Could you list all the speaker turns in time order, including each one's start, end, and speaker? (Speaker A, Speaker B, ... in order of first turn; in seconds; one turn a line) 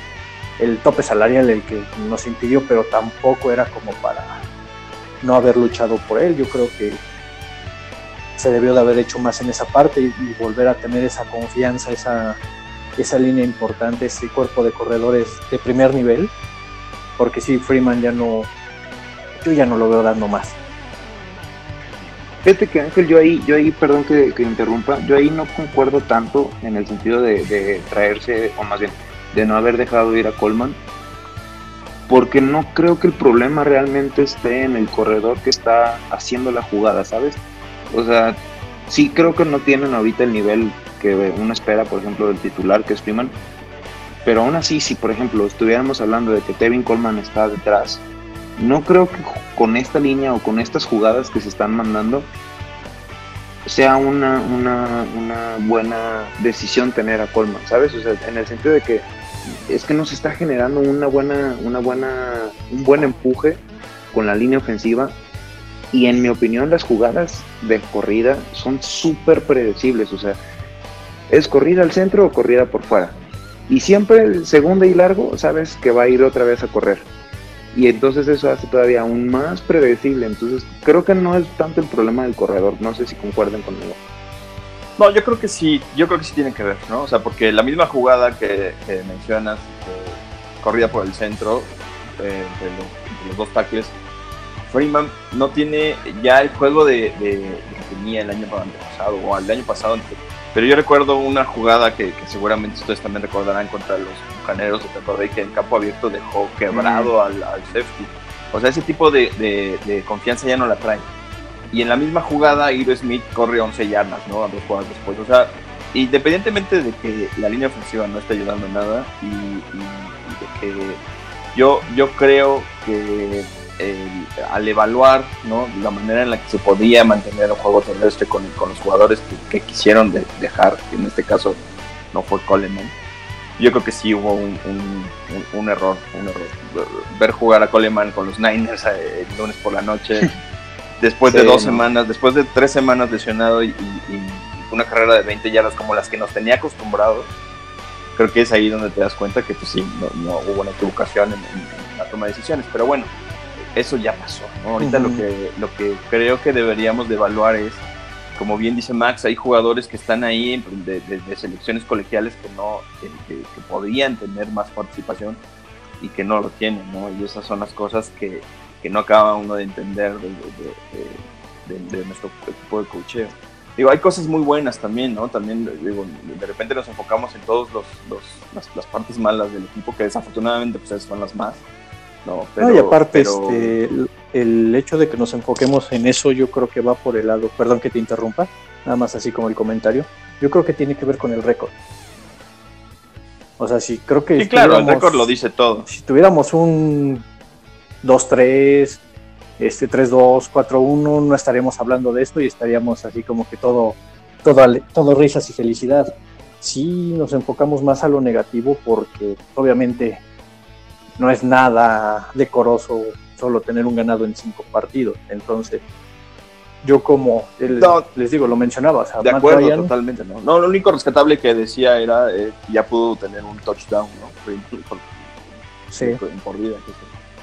Speaker A: 0.6-4.4
Speaker A: 5.2-7.0
Speaker A: 8.4-12.4
Speaker A: 13.0-16.3
Speaker A: 17.2-18.5
Speaker A: 19.4-20.6
Speaker B: 22.4-30.8
Speaker B: 32.1-43.4
Speaker B: 44.2-48.0
Speaker B: 48.6-52.3
Speaker B: 53.6-59.0
Speaker B: 59.7-63.6
Speaker B: 64.1-65.2
Speaker B: 65.9-70.4
Speaker B: 71.3-73.2
Speaker B: 73.7-77.1
Speaker B: 77.7-84.0
Speaker C: 85.0-93.9
Speaker C: 94.7-111.1
Speaker B: 106.7-107.1
Speaker C: 111.7-121.0
Speaker C: 121.5-131.6
Speaker C: 132.1-132.9
Speaker C: 133.6-140.3
Speaker C: 141.0-147.3
Speaker B: 141.2-141.8
Speaker C: 148.2-153.1
Speaker C: 153.7-157.8
Speaker A: 154.8-155.2
Speaker C: 158.3-165.4
Speaker C: 166.0-181.6
Speaker C: 182.2-183.7
Speaker A: 182.6-191.7
Speaker A: 193.6-195.3
Speaker C: 194.4-195.9
Speaker A: 195.9-197.2
Speaker A: 198.0-199.0
Speaker A: 199.6-210.2
Speaker A: 211.2-215.8
Speaker A: 216.8-219.9
Speaker C: 217.7-218.1
Speaker C: 219.2-225.1
Speaker A: 225.9-226.2
Speaker C: 225.9-227.1